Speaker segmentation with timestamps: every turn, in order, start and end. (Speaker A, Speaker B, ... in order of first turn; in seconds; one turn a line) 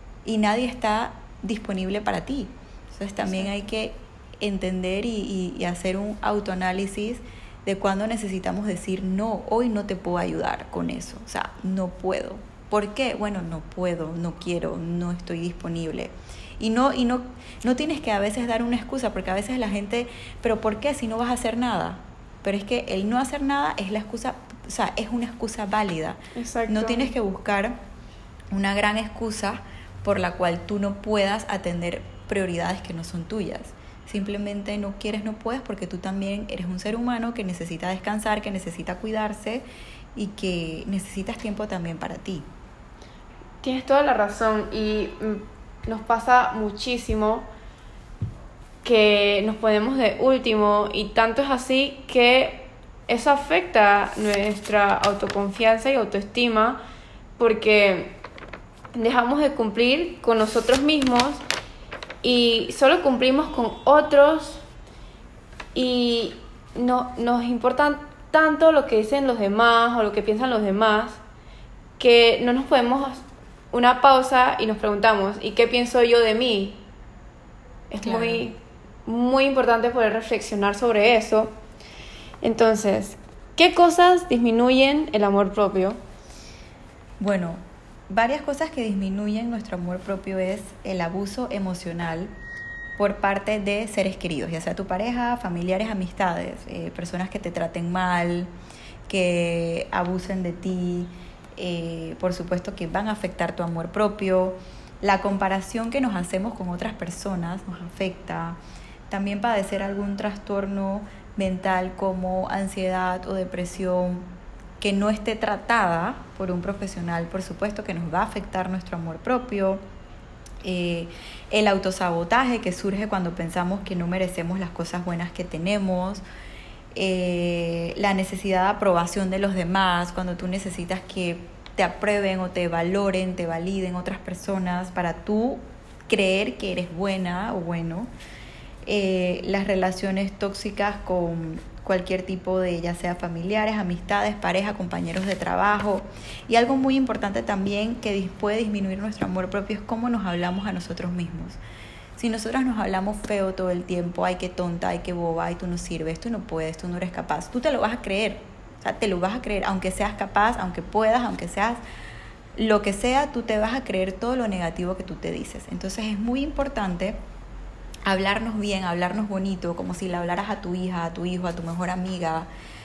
Speaker A: 0.2-27.7
Speaker B: 3.2-3.5
Speaker B: 26.3-27.1
Speaker A: 28.5-42.5
Speaker B: 43.6-47.5
Speaker B: 48.8-56.8
Speaker B: 57.4-58.2
Speaker B: 58.9-61.4
Speaker B: 62.2-64.6
Speaker B: 65.7-71.2
Speaker B: 72.0-76.8
Speaker B: 77.9-81.5
Speaker A: 78.0-78.5
Speaker B: 82.4-86.0
Speaker A: 87.2-92.3
Speaker A: 93.0-98.5
Speaker A: 99.0-108.6
Speaker A: 109.1-114.3
Speaker A: 114.8-119.8
Speaker A: 120.6-126.2
Speaker A: 126.9-138.1
Speaker A: 138.8-151.6
Speaker A: 152.2-161.8
Speaker A: 162.6-167.2
Speaker A: 168.1-172.5